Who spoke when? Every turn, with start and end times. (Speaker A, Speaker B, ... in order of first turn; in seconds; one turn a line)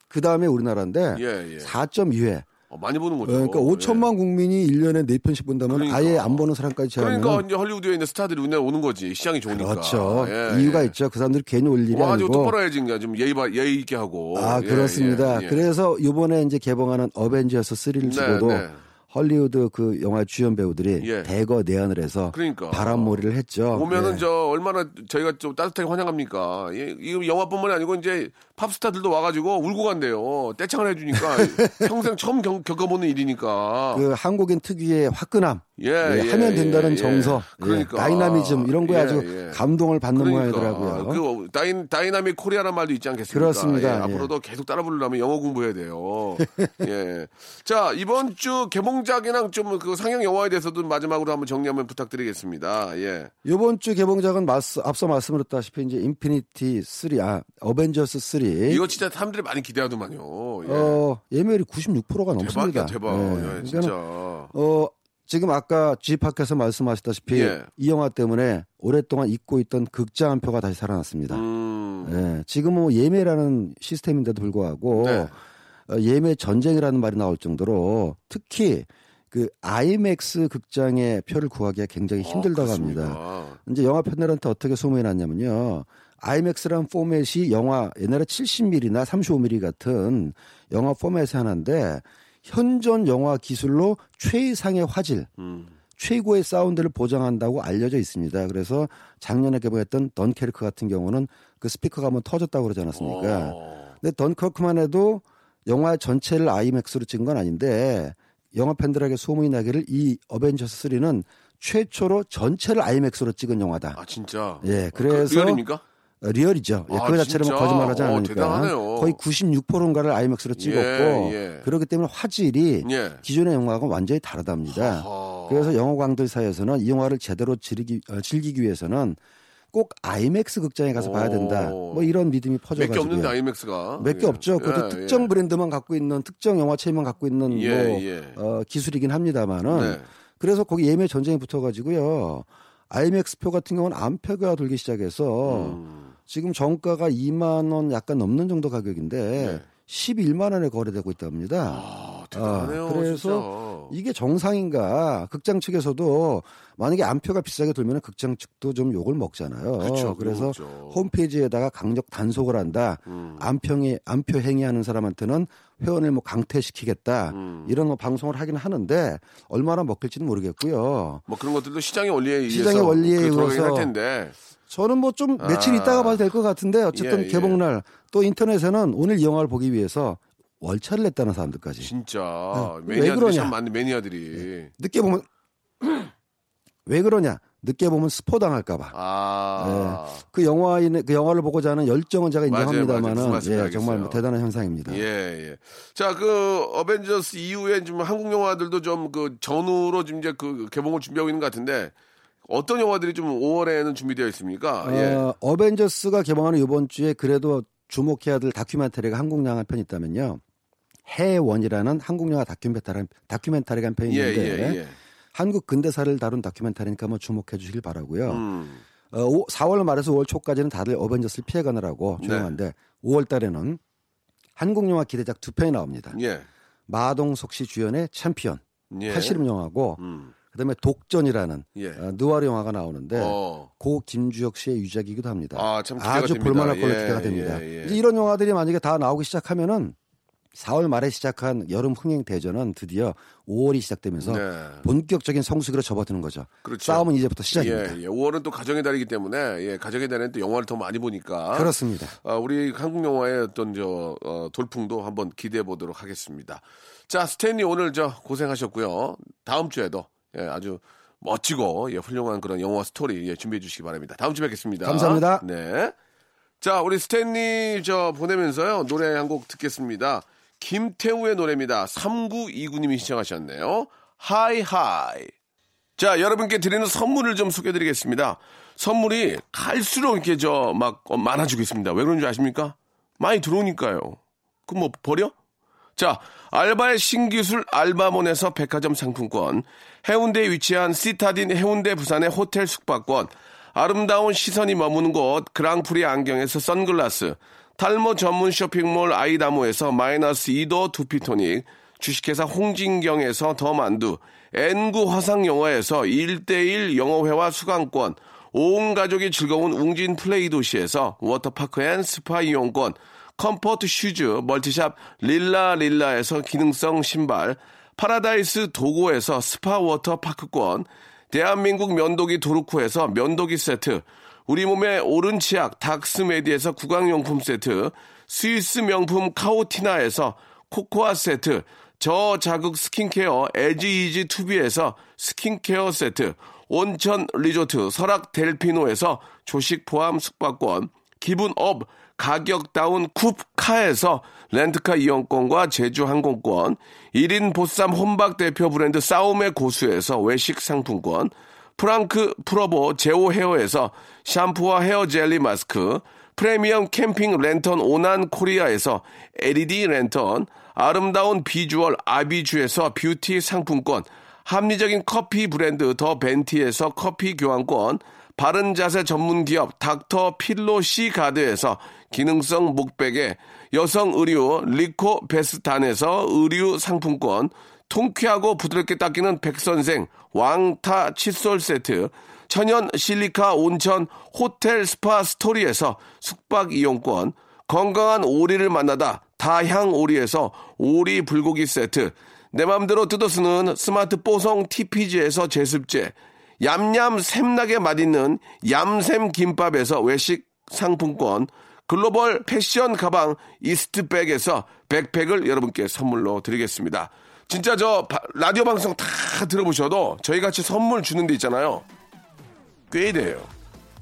Speaker A: 0.1-2.5
Speaker B: 1.1-1.8
Speaker B: 2.7-4.1
Speaker A: 3.2-7.5
Speaker B: 5.7-6.5
Speaker B: 7.0-10.9
Speaker A: 9.5-12.6
Speaker B: 11.9-15.7
Speaker A: 14.3-24.2
Speaker B: 18.0-18.8
Speaker B: 21.0-21.3
Speaker B: 22.3-23.2
Speaker B: 23.7-34.1
Speaker A: 31.1-31.9
Speaker A: 33.9-41.2
Speaker B: 35.8-39.6
Speaker B: 40.1-53.3
Speaker A: 43.3-44.3
Speaker A: 53.5-58.8
Speaker B: 58.7-61.0
Speaker A: 60.6-64.0
Speaker B: 62.4-64.5
Speaker A: 64.5-71.4
Speaker B: 67.3-67.7
Speaker B: 71.3-72.3
Speaker A: 72.0-95.3
Speaker B: 74.9-75.3
Speaker B: 82.2-83.6
Speaker B: 95.4-95.7
Speaker A: 96.0-114.0
Speaker B: 103.0-103.9
Speaker B: 114.0-115.8
Speaker A: 114.6-115.6
Speaker A: 116.2-129.2
Speaker B: 116.9-119.2
Speaker B: 120.6-121.7
Speaker B: 122.8-123.2
Speaker B: 124.7-125.7
Speaker A: 129.7-133.4
Speaker B: 131.0-132.1
Speaker B: 132.7-135.3
Speaker A: 134.0-171.2
Speaker B: 137.5-138.4
Speaker B: 139.7-140.1
Speaker B: 145.4-146.1
Speaker B: 149.4-149.7
Speaker B: 151.7-153.9
Speaker B: 159.8-161.1
Speaker B: 163.1-163.4
Speaker B: 167.3-167.7
Speaker B: 171.3-174.4
Speaker A: 172.5-173.9
Speaker A: 174.7-181.9
Speaker B: 175.4-176.3
Speaker B: 176.9-177.6
Speaker B: 181.8-184.7
Speaker A: 182.5-183.6
Speaker A: 184.8-185.3
Speaker A: 185.8-186.1
Speaker A: 186.9-188.9
Speaker B: 188.9-190.2
Speaker A: 189.6-195.0
Speaker B: 192.5-194.2
Speaker B: 194.9-201.9
Speaker B: 202.4-205.2
Speaker A: 204.8-210.4
Speaker A: 211.1-214.8
Speaker B: 214.1-215.0
Speaker A: 215.3-218.4
Speaker B: 218.3-218.8
Speaker A: 219.1-223.8
Speaker B: 222.2-222.6
Speaker A: 224.6-226.2
Speaker B: 226.1-226.5
Speaker A: 226.9-240.0
Speaker B: 228.9-229.4
Speaker B: 230.0-230.3
Speaker B: 231.8-232.0
Speaker B: 233.1-233.7
Speaker B: 235.5-238.0
Speaker A: 240.5-248.0
Speaker B: 244.2-244.8
Speaker B: 246.6-265.9
Speaker A: 251.5-252.1
Speaker A: 264.8-265.4
Speaker B: 266.6-275.3
Speaker B: 276.0-285.3
Speaker B: 286.0-411.9
Speaker B: 412.9-413.5